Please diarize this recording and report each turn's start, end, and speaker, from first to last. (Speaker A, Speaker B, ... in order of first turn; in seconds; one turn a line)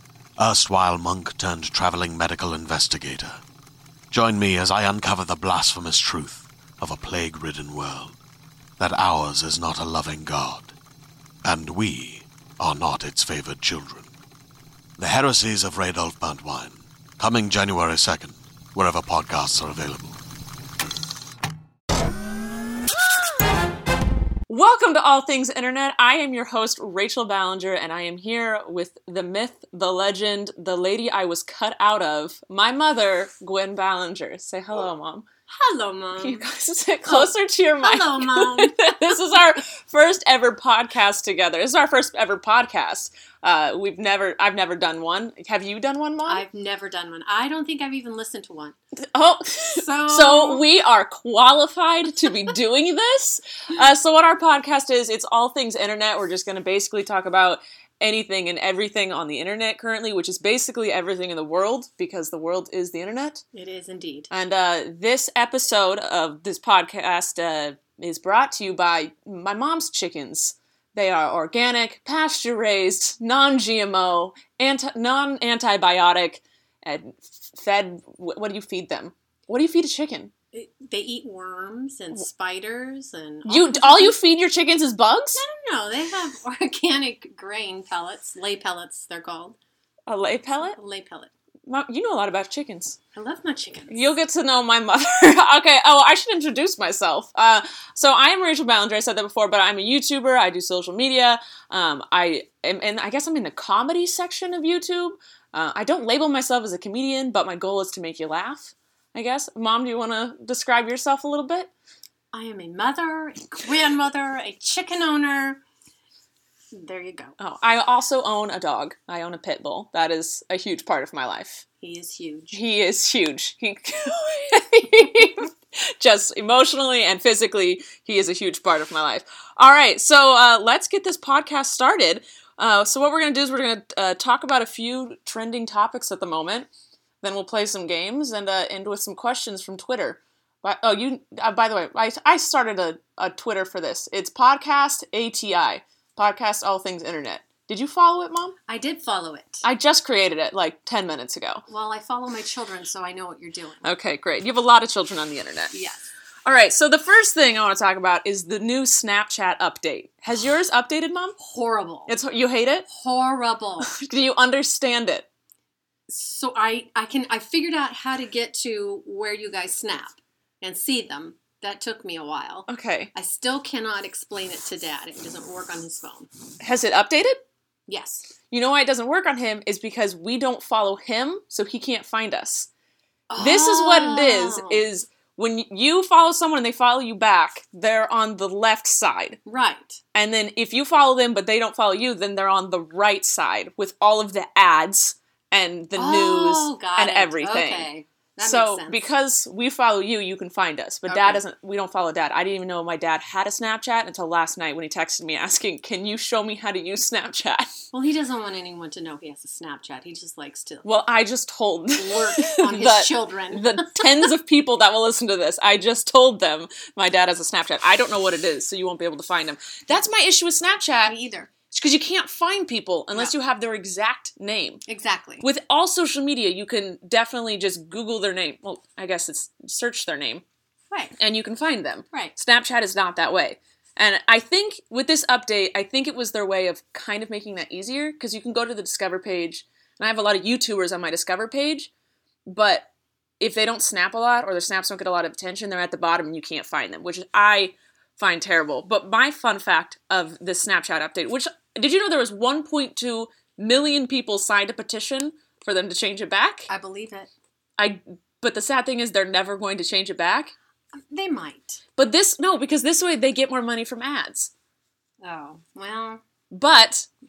Speaker A: 0.4-3.4
Speaker A: 4.1-8.2
Speaker A: 8.8-10.7
Speaker A: 11.4-14.1
Speaker A: 15.0-20.2
Speaker B: 24.5-35.3
Speaker C: 35.5-36.5
Speaker B: 36.2-46.4
Speaker C: 37.0-39.1
Speaker C: 46.3-48.8
Speaker B: 49.0-63.4
Speaker C: 49.7-50.6
Speaker C: 63.5-64.3
Speaker B: 64.3-80.3
Speaker C: 80.5-84.2
Speaker B: 83.5-85.4
Speaker C: 85.4-89.6
Speaker B: 90.1-90.8
Speaker C: 90.6-91.3
Speaker B: 91.7-93.0
Speaker C: 93.2-94.1
Speaker B: 93.9-111.7
Speaker C: 112.3-115.6
Speaker C: 116.7-117.3
Speaker B: 117.4-121.7
Speaker C: 121.8-122.6
Speaker B: 122.5-136.7
Speaker B: 137.2-148.6
Speaker C: 148.7-149.6
Speaker B: 149.6-151.6
Speaker C: 151.7-153.9
Speaker B: 153.8-155.7
Speaker C: 155.7-156.0
Speaker B: 156.4-161.4
Speaker C: 161.4-162.2
Speaker B: 162.1-162.9
Speaker C: 162.9-163.9
Speaker B: 163.8-165.3
Speaker C: 166.1-176.3
Speaker B: 172.7-173.1
Speaker B: 176.6-177.4
Speaker C: 177.9-178.3
Speaker B: 178.5-182.7
Speaker C: 183.3-184.8
Speaker B: 183.4-189.4
Speaker C: 189.5-190.0
Speaker B: 190.1-197.9
Speaker C: 195.9-199.0
Speaker B: 198.4-207.7
Speaker C: 201.1-201.4
Speaker C: 207.9-210.9
Speaker B: 210.8-221.2
Speaker C: 211.9-214.3
Speaker C: 221.1-221.5
Speaker B: 221.7-224.8
Speaker C: 224.9-225.5
Speaker B: 225.4-230.4
Speaker B: 231.2-241.9
Speaker B: 242.5-242.9
Speaker B: 243.4-256.7
Speaker C: 256.7-257.3
Speaker B: 257.8-260.5
Speaker C: 261.1-261.8
Speaker B: 262.0-264.5
Speaker C: 265.2-266.2
Speaker B: 266.5-267.1